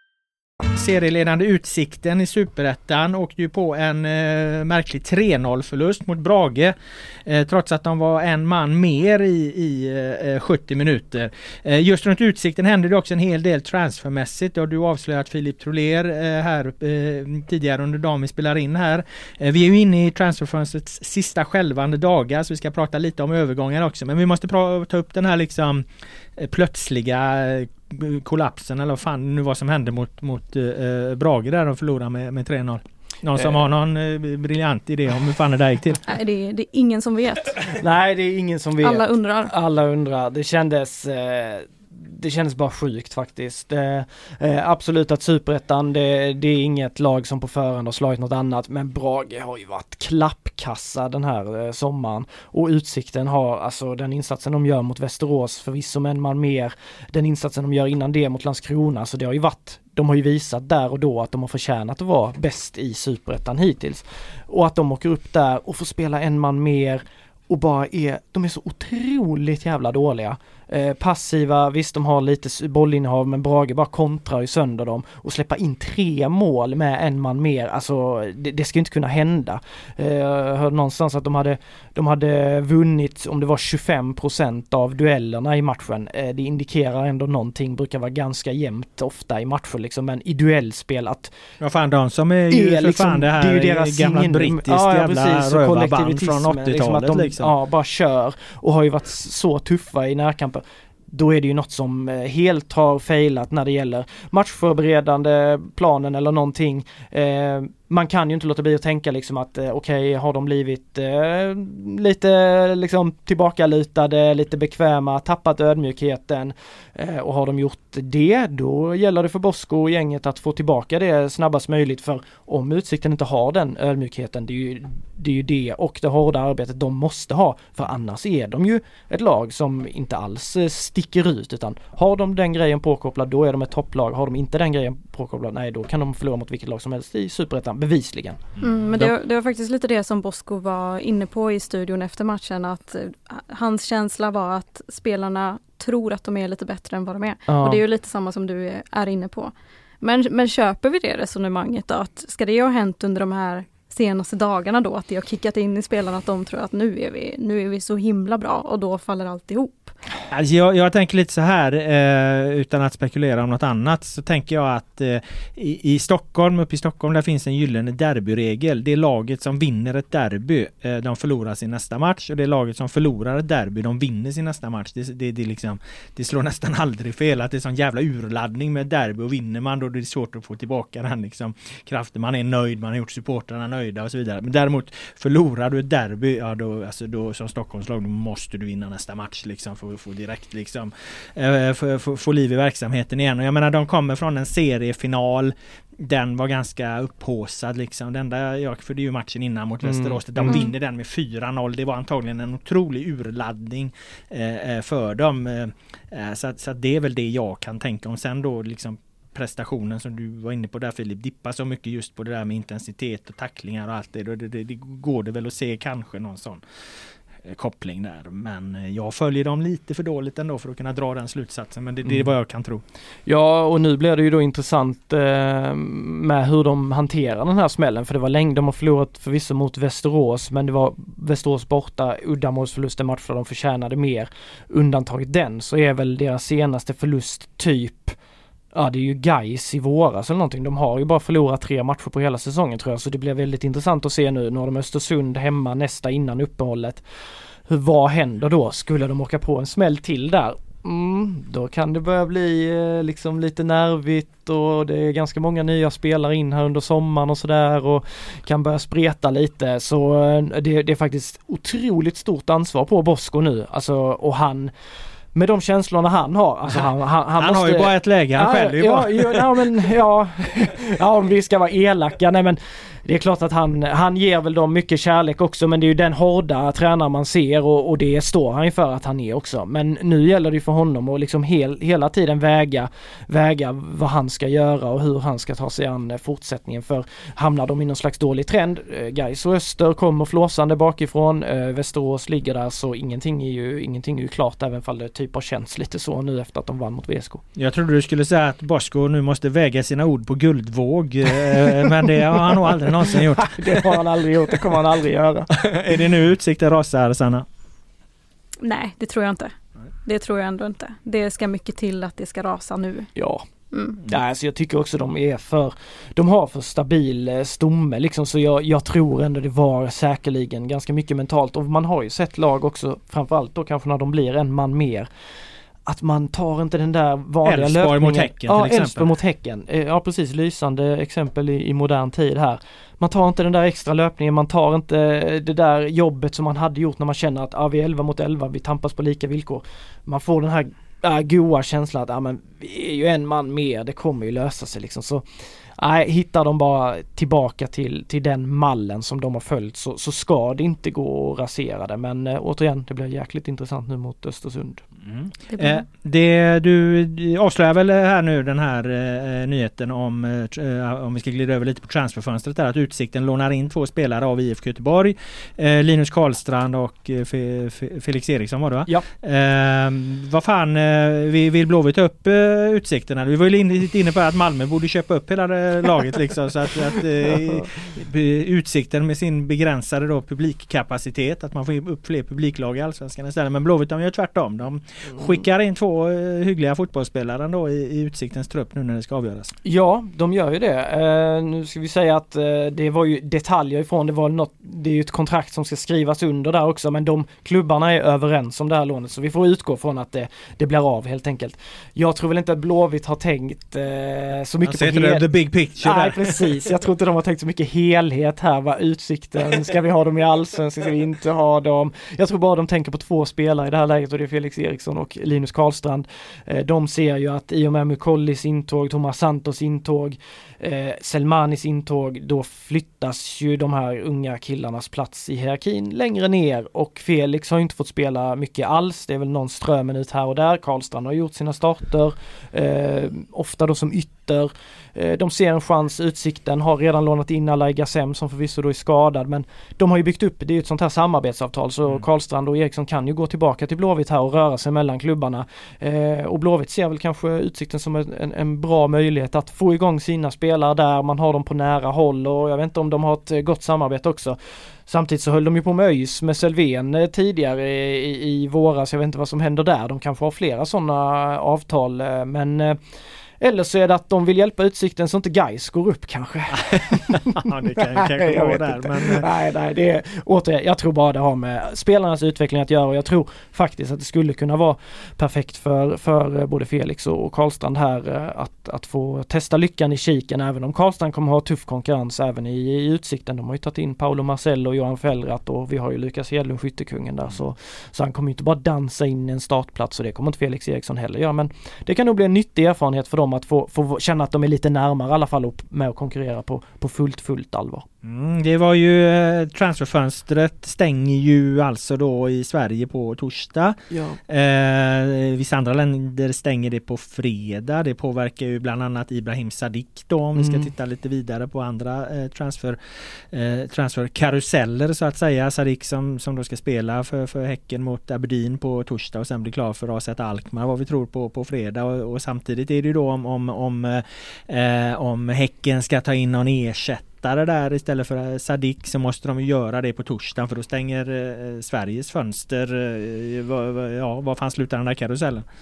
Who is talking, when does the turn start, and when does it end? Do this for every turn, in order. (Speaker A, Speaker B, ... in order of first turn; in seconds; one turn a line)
Speaker A: 0.7-36.0
Speaker B: 33.4-33.7
Speaker C: 36.1-37.8
Speaker B: 37.7-91.3
Speaker C: 38.8-39.5
Speaker A: 91.6-97.5
Speaker B: 92.5-138.4
Speaker A: 138.6-139.1
Speaker C: 138.6-159.9
Speaker B: 147.5-147.8
Speaker A: 160.3-216.6
Speaker B: 199.8-200.6
Speaker C: 200.4-200.7
Speaker A: 217.4-222.8
Speaker B: 222.0-222.3
Speaker B: 223.3-238.2
Speaker B: 238.7-247.0
Speaker B: 247.7-264.7
Speaker B: 265.3-297.4
Speaker A: 267.4-269.7
Speaker A: 297.6-304.6
Speaker B: 301.5-305.5
Speaker A: 305.5-307.4
Speaker C: 308.6-309.5
Speaker C: 310.0-313.1
Speaker B: 313.1-313.4
Speaker C: 313.7-314.0
Speaker B: 314.0-325.1
Speaker B: 325.9-345.2
Speaker A: 327.4-329.1
Speaker B: 345.8-354.8
Speaker A: 355.0-389.5
Speaker C: 355.5-355.8
Speaker B: 389.6-462.8
Speaker A: 404.6-406.5
Speaker B: 463.4-497.9
Speaker A: 466.5-469.3
Speaker A: 498.0-503.8
Speaker B: 503.9-504.2
Speaker A: 504.3-535.5
Speaker B: 510.3-510.7